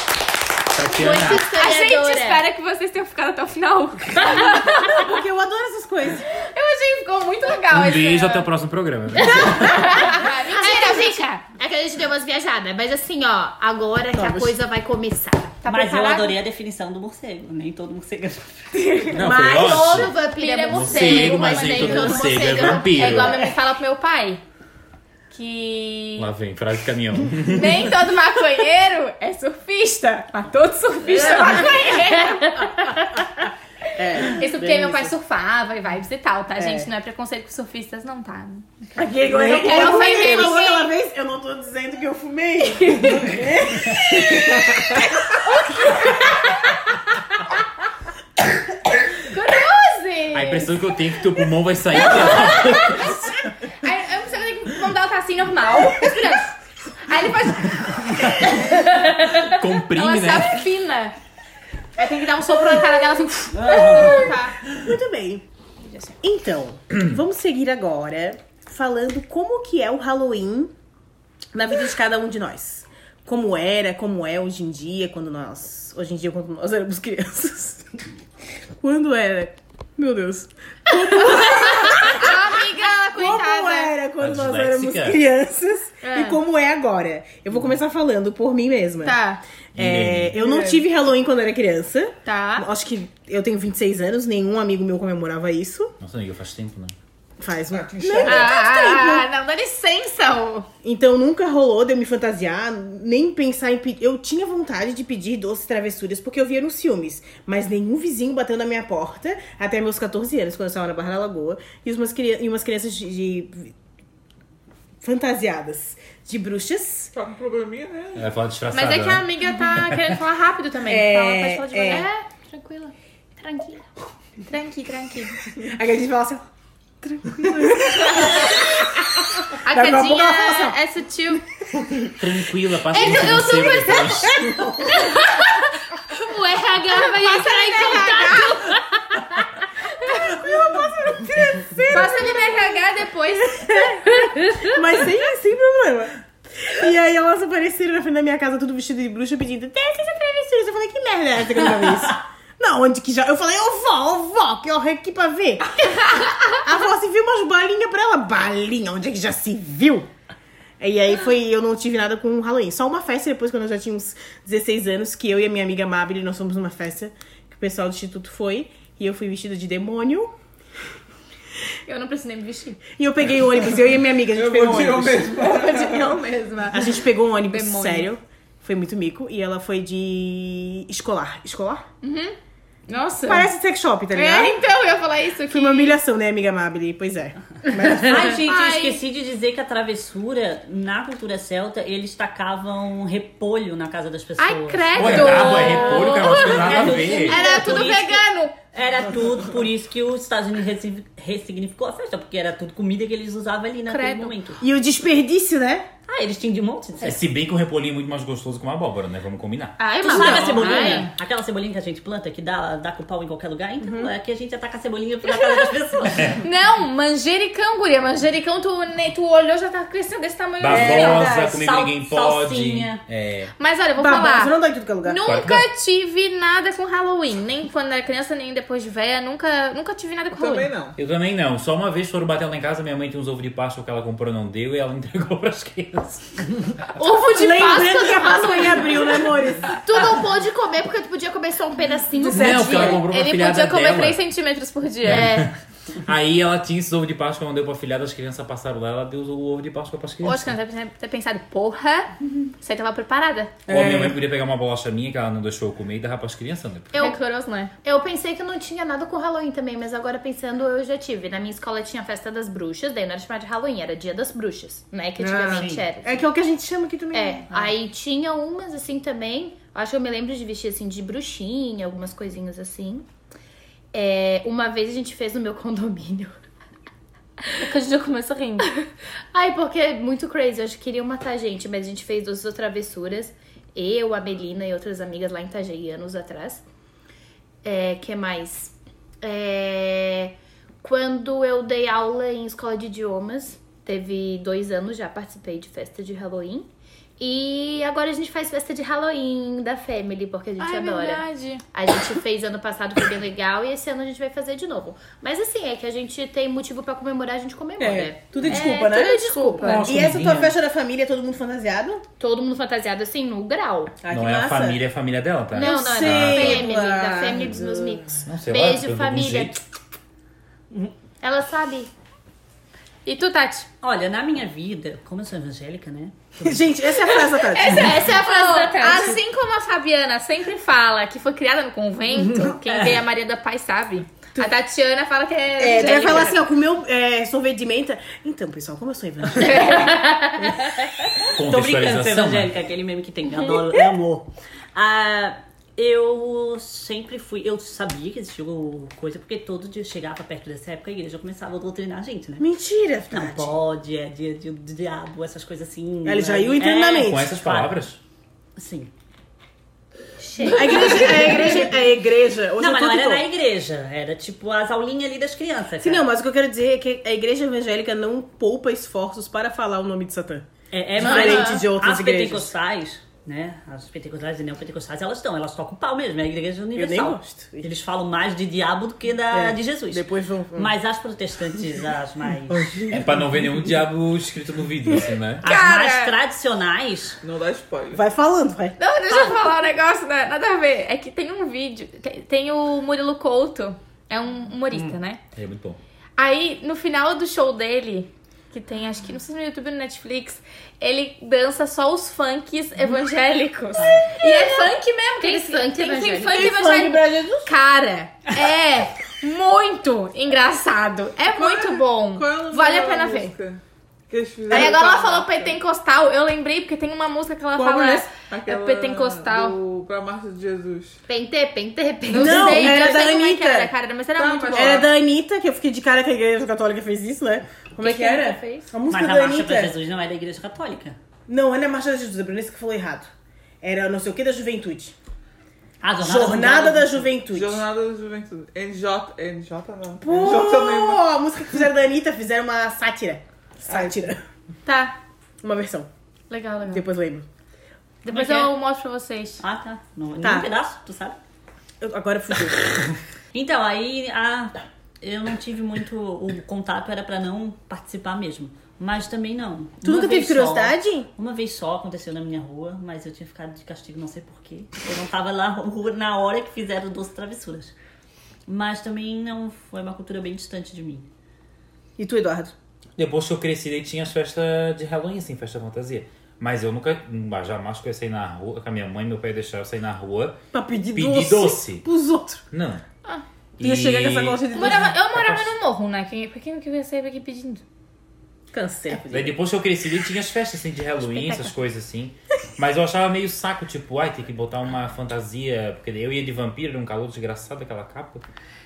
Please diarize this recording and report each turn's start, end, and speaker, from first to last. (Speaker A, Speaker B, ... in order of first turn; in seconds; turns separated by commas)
Speaker A: 0.7-1.5, Speaker B: 0.9-2.4, Speaker C: 1.1-5.2, Speaker D: 4.4-6.3, Speaker C: 6.3-8.5, Speaker A: 7.7-9.9, Speaker C: 9.1-11.4, Speaker B: 9.6-15.6, Speaker D: 14.2-14.5, Speaker C: 15.6-16.4, Speaker E: 15.7-18.6, Speaker C: 18.9-24.4, Speaker B: 19.1-23.5, Speaker A: 19.1-20.1, Speaker A: 20.7-23.5, Speaker C: 25.3-26.3, Speaker A: 26.2-28.0, Speaker C: 27.5-33.1, Speaker E: 31.1-31.8, Speaker D: 31.2-31.5, Speaker D: 34.0-35.1, Speaker C: 34.2-38.7, Speaker D: 36.6-36.9, Speaker D: 39.0-45.1, Speaker C: 39.4-40.9, Speaker B: 39.6-40.6, Speaker C: 42.8-43.3, Speaker C: 45.5-46.5, Speaker C: 49.2-50.7, Speaker A: 50.3-53.4, Speaker C: 52.0-53.2, Speaker C: 53.8-61.1, Speaker A: 59.4-60.6, Speaker C: 62.0-64.6, Speaker E: 63.5-64.3, Speaker D: 63.7-65.4, Speaker D: 66.2-70.7, Speaker D: 71.5-77.8, Speaker D: 78.8-89.2, Speaker C: 81.1-83.9, Speaker A: 84.2-85.2, Speaker C: 86.0-86.4, Speaker C: 89.0-89.4, Speaker D: 89.8-95.9, Speaker A: 89.8-90.3, Speaker F: 90.4-90.9, Speaker C: 92.3-92.7, Speaker A: 96.0-96.9, Speaker D: 97.4-99.2, Speaker F: 97.7-98.6, Speaker C: 98.2-100.7, Speaker D: 100.8-113.7, Speaker D: 115.0-117.1, Speaker F: 117.1-118.3, Speaker A: 118.2-120.0, Speaker C: 118.7-122.2, Speaker D: 120.8-122.1, Speaker B: 121.8-123.8, Speaker C: 124.5-125.4, Speaker D: 125.5-126.5, Speaker D: 127.0-130.8, Speaker C: 128.0-128.6, Speaker C: 129.6-131.4, Speaker A: 132.2-134.5, Speaker C: 132.9-139.2, Speaker D: 134.4-135.0, Speaker D: 137.2-138.8, Speaker C: 140.0-140.4, Speaker D: 140.0-142.7, Speaker C: 141.9-144.9, Speaker D: 143.4-160.1, Speaker D: 160.8-170.3, Speaker C: 171.9-172.8, Speaker D: 172.9-175.4, Speaker F: 174.3-176.2, Speaker C: 175.4-178.1, Speaker D: 176.7-181.8, Speaker C: 182.0-182.3, Speaker C: 182.9-183.5, Speaker D: 183.3-184.6, Speaker C: 184.1-186.0, Speaker D: 185.5-188.4, Speaker C: 187.8-189.0, Speaker E: 187.9-204.6, Speaker C: 194.4-198.6, Speaker A: 195.0-197.6, Speaker C: 203.9-204.3, Speaker D: 204.6-205.9, Speaker E: 206.1-207.2, Speaker A: 207.0-209.9, Speaker B: 209.8-211.1, Speaker C: 209.8-211.1, Speaker E: 210.0-216.4, Speaker D: 213.8-214.1, Speaker A: 216.1-216.4, Speaker C: 216.4-221.3, Speaker A: 220.6-223.5, Speaker D: 220.7-221.7, Speaker E: 220.7-223.0, Speaker C: 223.6-230.7, Speaker D: 224.0-225.2, Speaker A: 225.2-225.7, Speaker F: 230.3-231.0, Speaker A: 231.0-236.3, Speaker C: 236.9-239.2, Speaker D: 237.2-239.8, Speaker B: 239.7-243.0, Speaker A: 242.3-244.2, Speaker C: 242.3-245.4, Speaker A: 245.0-245.5, Speaker B: 245.1-245.5, Speaker A: 246.0-250.5, Speaker C: 250.2-253.6, Speaker D: 253.7-254.1, Speaker A: 253.7-256.9, Speaker C: 256.9-257.7, Speaker B: 257.8-266.1, Speaker D: 265.2-267.7, Speaker E: 265.5-265.8, Speaker B: 267.1-273.1, Speaker B: 273.9-276.3, Speaker C: 277.5-278.7, Speaker B: 279.3-286.6, Speaker B: 287.6-296.7, Speaker B: 297.2-309.9, Speaker C: 300.6-301.6, Speaker D: 307.8-312.0, Speaker C: 308.5-309.9, Speaker A: 309.6-310.5, Speaker B: 312.2-313.9, Speaker D: 314.0-314.8, Speaker A: 314.1-316.7, Speaker B: 315.5-319.6, Speaker D: 315.5-318.2, Speaker A: 318.2-319.5, Speaker B: 321.2-321.9, Speaker C: 323.1-323.7, Speaker E: 323.8-326.9, Speaker D: 326.4-328.0, Speaker C: 327.2-336.4, Speaker E: 327.6-329.2, Speaker B: 327.8-329.1, Speaker E: 332.1-333.0, Speaker D: 335.6-340.0, Speaker C: 339.4-340.5, Speaker E: 340.4-340.7, Speaker A: 341.3-342.5, Speaker E: 341.4-352.5, Speaker D: 352.4-353.5, Speaker E: 353.1-357.8, Speaker D: 356.1-357.3, Speaker A: 357.0-358.0, Speaker E: 358.6-358.9, Speaker B: 360.2-361.7, Speaker E: 360.5-361.8, Speaker C: 360.5-361.1, Speaker D: 360.5-363.2, Speaker E: 362.6-366.1, Speaker D: 365.8-372.5, Speaker E: 370.7-382.9, Speaker B: 371.0-371.6, Speaker D: 376.8-377.7, Speaker D: 379.3-380.7, Speaker D: 382.5-383.0, Speaker A: 382.9-385.5, Speaker E: 385.4-387.2, Speaker C: 385.4-386.1, Speaker F: 387.2-388.0, Speaker D: 387.9-388.8, Speaker C: 388.8-395.2, Speaker A: 395.4-395.8, Speaker C: 396.2-413.4, Speaker E: 403.8-404.1, Speaker B: 404.1-406.6, Speaker D: 406.3-407.5, Speaker F: 411.3-415.6, Speaker C: 414.5-419.6, Speaker F: 417.6-421.0, Speaker B: 421.1-423.1, Speaker C: 422.1-424.9, Speaker D: 422.1-423.7, Speaker F: 424.2-424.9, Speaker D: 424.5-429.7, Speaker C: 427.8-428.7, Speaker E: 428.9-431.0, Speaker D: 431.3-433.1, Speaker D: 433.6-434.9, Speaker E: 435.8-437.1, Speaker D: 436.0-437.6, Speaker F: 437.3-441.0, Speaker D: 440.0-444.2, Speaker C: 444.7-445.0, Speaker D: 445.4-445.9, Speaker B: 446.3-446.8, Speaker C: 446.3-446.8, Speaker D: 446.7-447.3, Speaker B: 448.1-448.5, Speaker C: 448.1-449.4, Speaker E: 449.4-451.2, Speaker D: 450.2-450.5, Speaker D: 451.8-452.8, Speaker E: 453.3-467.7, Speaker D: 459.8-461.1, Speaker E: 468.5-471.1, Speaker D: 472.0-472.5, Speaker A: 473.0-480.4, Speaker D: 480.5-482.4, Speaker A: 480.9-481.9, Speaker A: 482.5-482.8, Speaker A: 483.6-485.5, Speaker D: 483.6-485.0, Speaker C: 484.5-487.6, Speaker D: 488.5-489.4, Speaker A: 489.1-498.2